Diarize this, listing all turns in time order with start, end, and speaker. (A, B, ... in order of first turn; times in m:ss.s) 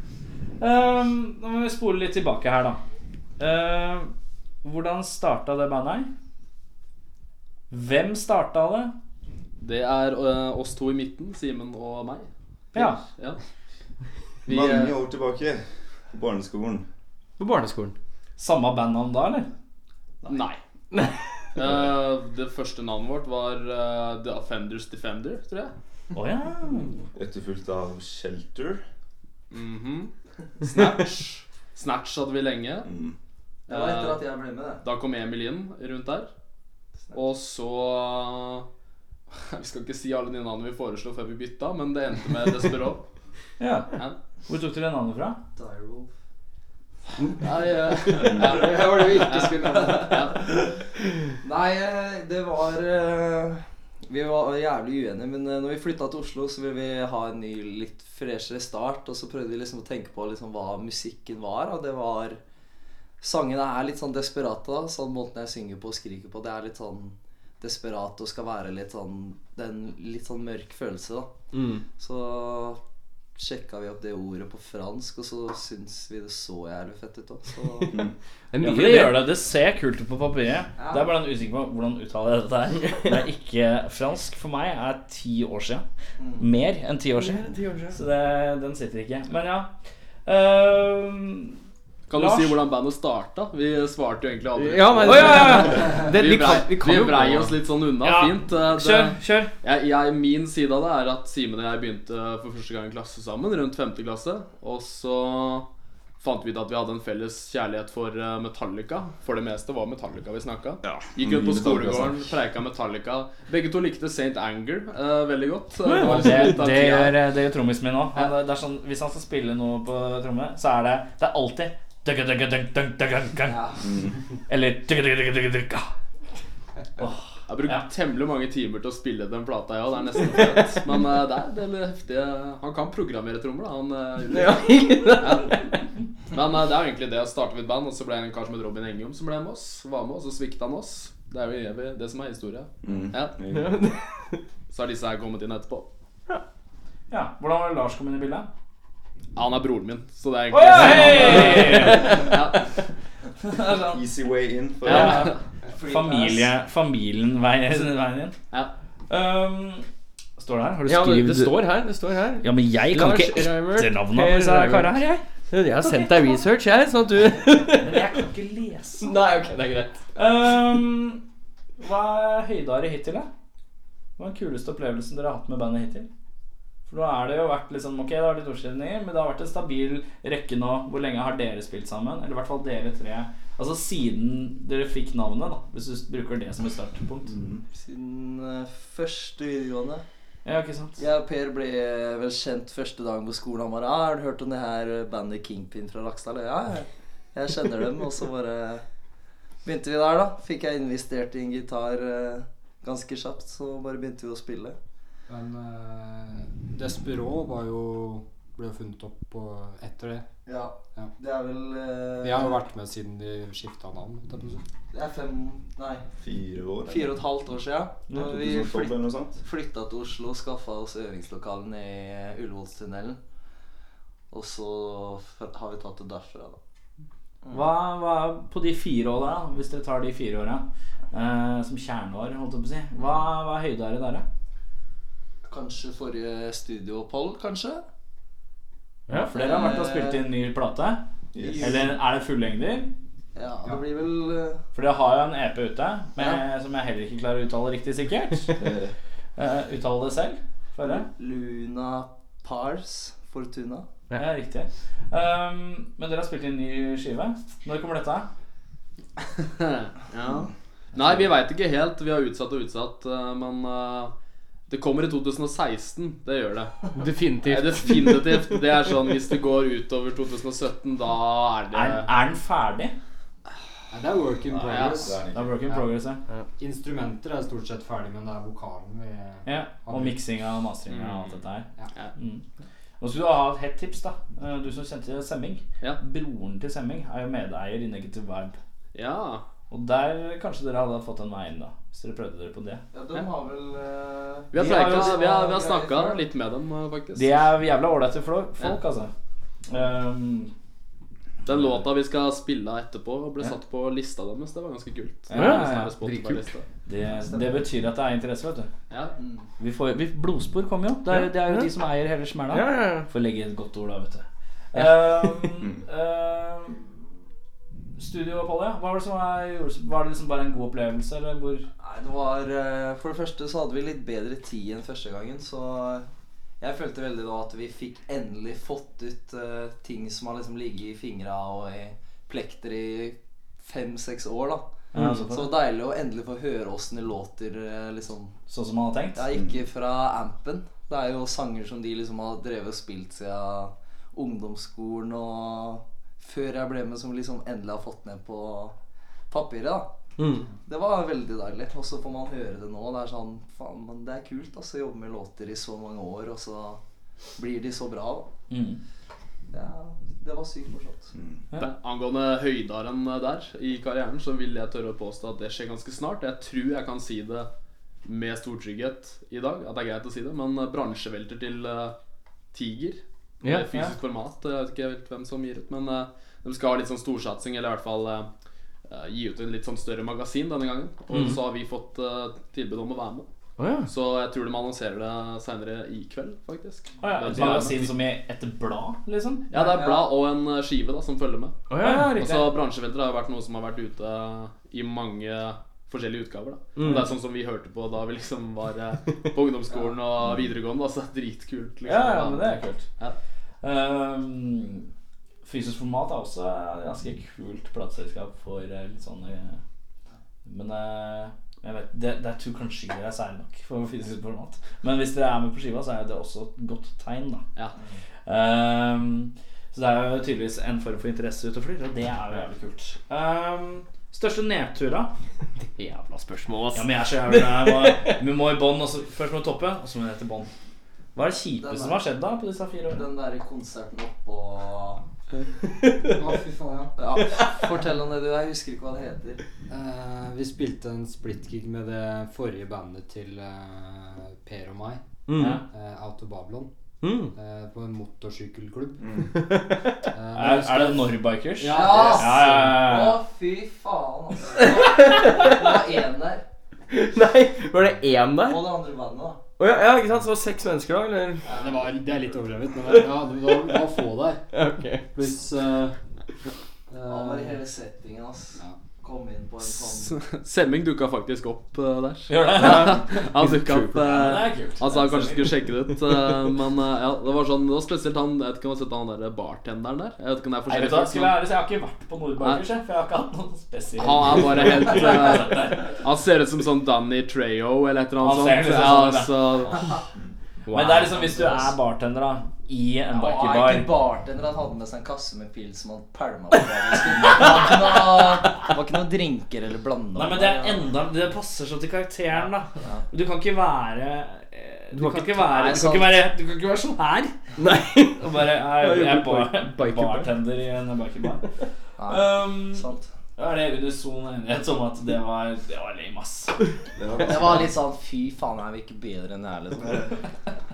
0:00.6-0:02.8 A
0:03.4-0:04.1 A
0:04.6-0:06.1 A
0:07.7-0:08.9 A
0:09.6-0:13.4 B
0:12.7-0:13.0 A
0:14.5-0:15.0 B
0:14.5-0:16.8 C
0:17.4-0:18.0 D
0:18.4-0:19.5 A
0:20.3-0:20.6 B
0:20.9-0:21.2 D
0:21.6-0:25.7 B
0:26.1-0:27.0 A
0:27.2-0:28.8 C
0:29.5-0:30.1 B
0:30.6-0:32.9 B
0:32.9-0:33.2 C
0:33.7-0:34.3 B
0:33.7-0:34.8 E
0:34.8-0:36.3 B
0:37.1-0:38.7 B
0:39.4-0:43.0 B
0:43.6-0:43.9 A
0:44.5-0:45.4 A
0:45.6-0:46.1 E
0:47.4-0:50.5 B
0:48.4-0:50.5 E
0:48.6-0:50.0 F
0:51.4-1:02.4 E
1:03.2-1:11.3 E
1:11.5-1:11.8 D
1:11.9-1:12.8 E
1:13.4-1:18.0 E
1:18.5-1:19.2 D
1:18.6-1:25.8 A
1:20.8-1:21.2 E
1:26.2-1:26.5 E
1:26.4-1:29.7 A
1:27.2-1:28.0 D
1:30.3-1:31.6 A
1:32.1-1:45.7 B
1:32.1-1:32.6 A
1:34.6-1:37.6 D
1:35.1-1:35.9 A
1:38.0-1:39.5 A
1:46.2-1:57.2 B
1:51.0-1:52.3 C
1:55.9-1:56.6 D
1:56.0-2:03.7 A
2:03.5-2:03.8 E
2:04.5-2:05.9 A
2:07.0-2:07.9 A
2:07.5-2:15.6 B
2:14.3-2:15.7 D
2:16.3-2:23.4 B
2:22.8-2:23.8 C
2:23.5-2:24.4 D
2:24.7-2:25.9 B
2:27.1-2:28.5 A
2:29.4-2:32.6 B
2:30.5-2:32.4 A
2:30.8-2:32.3 D
2:33.4-2:34.0 A
2:33.9-2:35.1 C
2:34.8-2:35.4 B
2:34.8-2:38.4 A
2:35.7-2:36.5 E
2:39.1-2:39.9 A
2:40.4-2:41.6 A
2:40.9-2:45.0 D
2:42.4-2:45.2 A
2:45.5-2:48.2 D
2:45.8-2:46.4 A
2:47.7-2:49.2 A
2:49.0-2:50.0 D
2:50.2-2:51.2 A
2:51.8-2:53.3 A
2:54.2-2:56.1 A
2:56.9-3:07.4 A
3:07.3-3:07.6 C
3:07.7-3:10.0 E
3:10.4-3:11.0 A
3:11.0-3:18.8 E
3:19.6-3:24.8 E
3:25.3-3:30.3 F
3:30.5-3:32.6 E
3:32.2-3:34.6 F
3:34.9-3:36.0 E
3:36.2-3:37.2 C
3:36.9-3:43.2 E
3:38.1-3:38.6 A
3:38.1-3:39.4 C
3:44.3-3:46.6 E
3:47.5-3:54.2 A
3:55.5-3:57.8 E
3:59.1-4:01.0 A
3:59.2-4:00.2 E
4:01.4-4:01.8 C
4:01.4-4:01.9 E
4:01.6-4:02.9 A
4:03.4-4:04.6 E
4:04.8-4:08.8 A
4:06.2-4:06.4 E
4:08.6-4:08.9 C
4:09.4-4:11.1 A
4:10.8-4:13.9 E
4:14.2-4:18.3 A
4:19.4-4:24.1 B
4:24.7-4:26.7 B
4:27.0-4:28.4 D
4:27.4-4:32.1 B
4:31.7-4:33.0 A
4:33.9-4:35.8 F
4:34.5-4:35.5 C
4:34.6-4:35.0 B
4:35.2-4:36.2 A
4:36.6-4:40.2 F
4:39.5-4:42.4 A
4:40.9-4:41.4 B
4:43.0-4:48.6 A
4:48.9-4:49.4 B
4:49.7-4:52.8 A
4:52.9-4:56.3 E
4:54.5-4:57.4 B
4:54.6-4:55.1 A
4:57.2-4:59.1 A
4:59.7-5:00.5 A
5:01.4-5:06.7 B
5:05.3-5:06.0 A
5:05.3-5:06.5 D
5:06.9-5:08.7 A
5:07.0-5:07.6 E
5:08.9-5:09.2 B
5:09.2-5:09.4 E
5:09.6-5:17.0 A
5:11.1-5:11.7 D
5:12.5-5:13.1 D
5:18.0-5:21.7 A
5:21.8-5:26.1 E
5:26.6-5:38.3 E
5:34.9-5:35.5 A
5:38.5-5:39.3 A
5:39.2-5:48.8 E
5:49.3-5:49.9 E
5:50.2-5:50.5 D
5:50.6-5:56.8 E
5:57.4-5:58.3 E
5:58.5-5:58.8 A
5:59.5-6:01.1 E
6:01.6-6:07.5 B
6:08.0-6:12.0 B
6:12.5-6:18.3 B
6:18.9-6:23.3 B
6:21.1-6:21.4 D
6:23.6-6:23.9 D
6:23.9-6:27.9 B
6:27.0-6:29.5 A
6:29.5-6:43.2 B
6:29.5-6:30.1 E
6:31.7-6:32.2 D
6:31.8-6:32.5 A
6:36.8-6:37.1 D
6:39.7-6:40.0 E
6:41.8-6:42.8 A
6:43.6-6:44.9 A
6:45.4-6:49.6 A
6:50.5-6:57.5 A
6:58.3-7:05.1 A
7:05.6-7:08.2 D
7:06.7-7:10.5 A
7:11.2-7:13.1 A
7:11.6-7:12.0 E
7:12.9-7:15.0 E
7:15.7-7:16.2 D
7:16.1-7:16.9 F
7:17.0-7:19.4 E
7:19.7-7:25.0 F
7:25.3-7:25.6 D
7:25.4-7:25.6 A
7:25.7-7:26.7 F
7:27.0-7:27.3 D
7:27.3-7:29.0 F
7:29.3-7:30.0 D
7:30.1-7:32.5 F
7:30.3-7:33.2 A
7:31.6-7:36.4 E
7:34.8-7:35.5 D
7:36.9-7:38.7 D
7:38.4-7:39.4 E
7:39.6-7:41.4 D
7:41.4-7:42.0 E
7:41.6-7:44.4 F
7:44.5-7:45.1 D
7:45.2-7:45.9 F
7:46.9-7:47.6 F
7:47.0-7:50.1 E
7:49.7-8:01.4 B
7:52.3-7:53.3 A
7:52.6-7:54.0 D
7:53.9-7:55.6 A
8:00.7-8:06.0 A
8:02.4-8:02.6 B
8:04.0-8:09.8 B
8:08.2-8:09.8 A
8:10.7-8:11.4 D
8:10.7-8:14.0 A
8:13.1-8:20.9 E
8:20.2-8:27.3 A
8:22.8-8:23.0 E
8:24.9-8:25.5 D
8:25.5-8:26.2 E
8:27.6-8:30.3 D
8:28.2-8:31.5 A
8:32.0-8:33.1 E
8:32.0-8:36.6 A
8:37.0-8:37.6 C
8:37.2-8:40.1 E